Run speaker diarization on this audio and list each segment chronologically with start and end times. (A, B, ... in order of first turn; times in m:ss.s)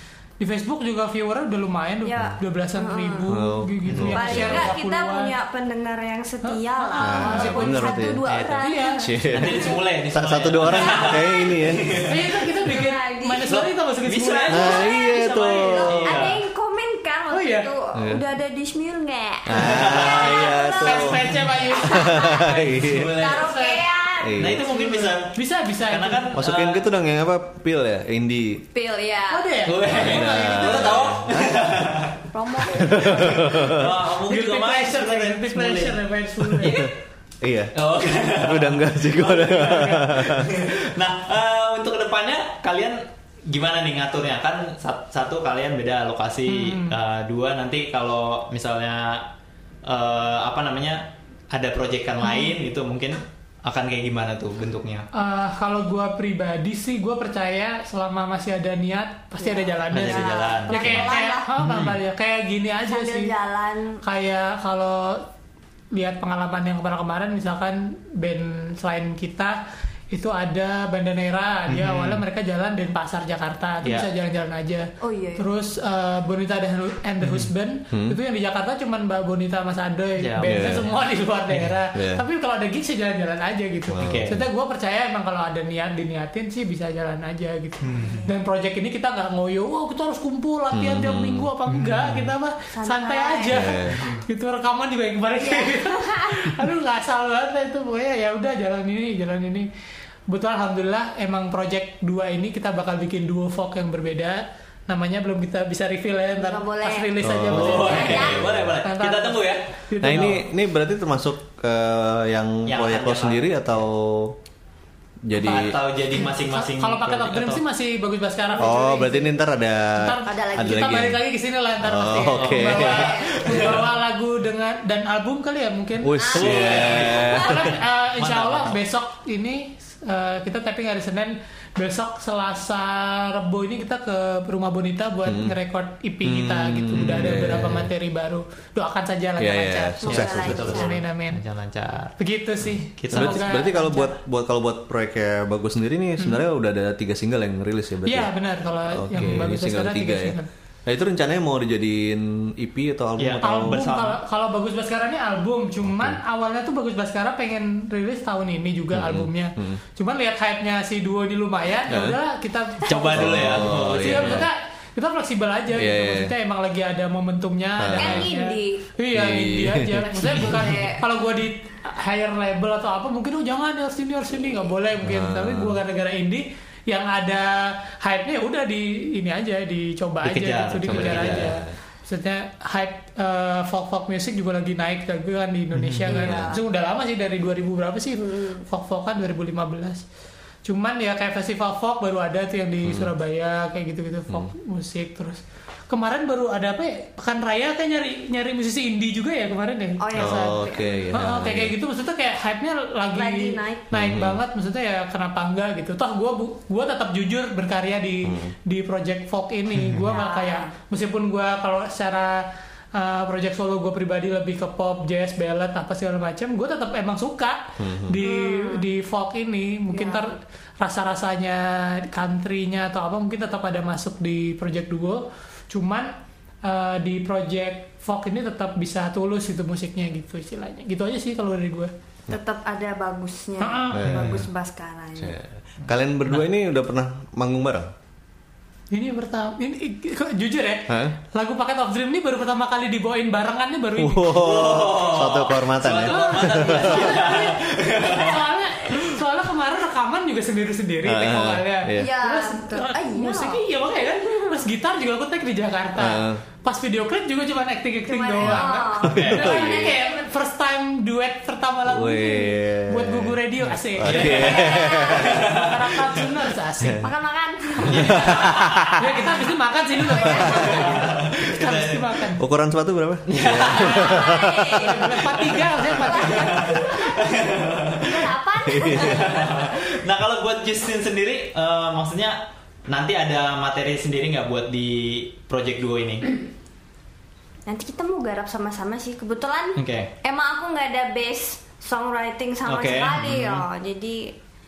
0:00.4-0:05.3 A
0:02.0-0:03.3 B
0:03.3-0:04.7 C
0:04.1-0:09.7 B
0:06.4-0:09.1 A
0:07.0-0:08.2 C
0:08.2-0:08.7 D
0:09.0-0:12.0 C
0:09.3-0:12.3 D
0:10.6-0:13.5 B
0:12.0-0:14.8 A
0:13.5-0:16.4 D
0:14.5-0:16.2 C
0:14.6-0:24.5 B
0:17.3-0:17.7 A
0:17.9-0:18.2 C
0:19.4-0:23.2 C
0:19.5-0:20.6 D
0:20.8-0:22.4 A
0:22.5-0:23.7 D
0:23.4-0:23.8 A
0:24.2-0:24.6 C
0:24.4-0:26.8 D
0:24.5-0:26.4 A
0:26.3-0:28.6 C
0:28.7-0:29.6 B
0:29.3-0:31.1 A
0:29.6-0:32.2 D
0:29.8-0:31.6 C
0:32.3-0:33.8 B
0:32.7-0:33.9 C
0:33.2-0:36.0 D
0:34.3-0:36.8 A
0:36.6-0:36.9 D
0:37.4-0:37.7 C
0:37.7-0:49.3 D
0:38.2-0:40.6 C
0:46.5-0:47.0 A
0:49.8-0:55.1 D
0:55.1-1:03.3 A
0:59.4-1:01.5 B
0:59.9-1:02.0 D
1:02.9-1:04.0 B
1:04.0-1:05.2 A
1:05.9-1:09.6 A
1:10.1-1:39.7 A
1:11.7-1:12.2 D
1:15.0-1:15.4 B
1:17.2-1:17.5 D
1:17.9-1:18.2 C
1:20.2-1:20.8 D
1:20.4-1:20.9 C
1:21.9-1:22.2 C
1:23.9-1:24.4 C
1:24.0-1:24.4 D
1:27.8-1:28.2 D
1:30.7-1:31.5 C
1:31.7-1:32.3 D
1:32.7-1:33.7 B
1:33.5-1:34.0 C
1:35.4-1:36.6 B
1:40.3-1:50.4 A
1:46.4-1:48.5 B
1:47.2-1:48.8 C
1:47.5-1:49.6 D
1:50.0-1:54.4 C
1:52.6-1:53.7 D
1:55.2-1:55.8 C
1:55.4-1:57.6 D
1:56.1-1:59.4 A
1:58.6-2:01.2 C
1:59.9-2:06.2 A
2:00.2-2:00.9 B
2:01.8-2:03.1 C
2:02.3-2:03.9 D
2:02.7-2:03.7 B
2:06.0-2:07.7 C
2:06.2-2:07.5 B
2:06.3-2:08.8 D
2:07.2-2:21.4 A
2:15.2-2:15.6 C
2:16.2-2:17.9 C
2:19.4-2:20.9 C
2:20.0-2:21.0 B
2:20.0-2:22.2 D
2:22.2-2:24.2 A
2:23.0-2:23.5 D
2:23.1-2:28.3 C
2:28.0-2:30.5 A
2:28.9-2:33.8 C
2:33.2-2:34.2 D
2:33.4-3:10.0 A
2:35.8-2:36.2 C
2:38.9-2:39.8 C
2:41.9-2:42.2 C
2:42.8-2:44.4 D
2:43.1-2:44.5 C
2:45.7-2:46.3 C
2:47.8-2:48.3 C
2:48.0-2:48.8 B
2:49.1-2:50.3 C
2:50.2-2:51.0 B
2:55.0-2:55.8 C
3:00.2-3:01.5 D
3:00.9-3:01.7 C
3:05.7-3:06.1 D
3:06.1-3:06.5 C
3:06.1-3:06.6 B
3:08.2-3:08.6 B
3:10.6-3:51.9 A
3:12.8-3:13.1 C
3:20.0-3:21.1 B
3:20.1-3:21.7 C
3:23.1-3:23.9 B
3:23.9-3:24.4 C
3:28.2-3:28.5 C
3:30.0-3:30.7 B
3:37.8-3:38.2 C
3:38.2-3:38.9 B
3:39.9-3:40.3 B
3:52.3-3:55.4 B
3:53.6-3:54.3 A
3:53.9-3:54.4 C
3:54.1-3:54.4 D
3:55.2-3:57.9 C
3:58.9-4:04.5 A
4:00.9-4:01.1 C
4:04.0-4:07.1 C
4:04.3-4:08.4 D
4:06.0-4:27.1 A
4:11.0-4:12.1 C
4:11.9-4:14.6 B
4:16.0-4:16.4 C
4:18.0-4:20.2 B
4:18.4-4:19.9 C
4:19.0-4:19.6 D
4:21.9-4:25.5 C
4:24.0-4:25.8 D
4:24.2-4:25.4 B
4:26.8-4:27.1 C
4:27.0-4:28.5 B
4:27.8-4:29.0 C
4:27.8-4:29.0 D
4:29.0-4:32.4 A
4:30.0-4:30.9 B
4:30.3-4:31.1 C
4:30.4-4:32.2 D
4:32.4-4:35.0 C
4:33.3-4:34.3 D
4:33.7-4:35.2 B
4:34.8-4:36.9 A
4:35.8-4:39.9 B
4:36.1-4:38.3 D
4:38.6-4:39.4 C
4:38.8-4:46.4 D
4:47.6-4:54.3 B
4:49.8-4:50.1 D
4:52.6-4:53.6 D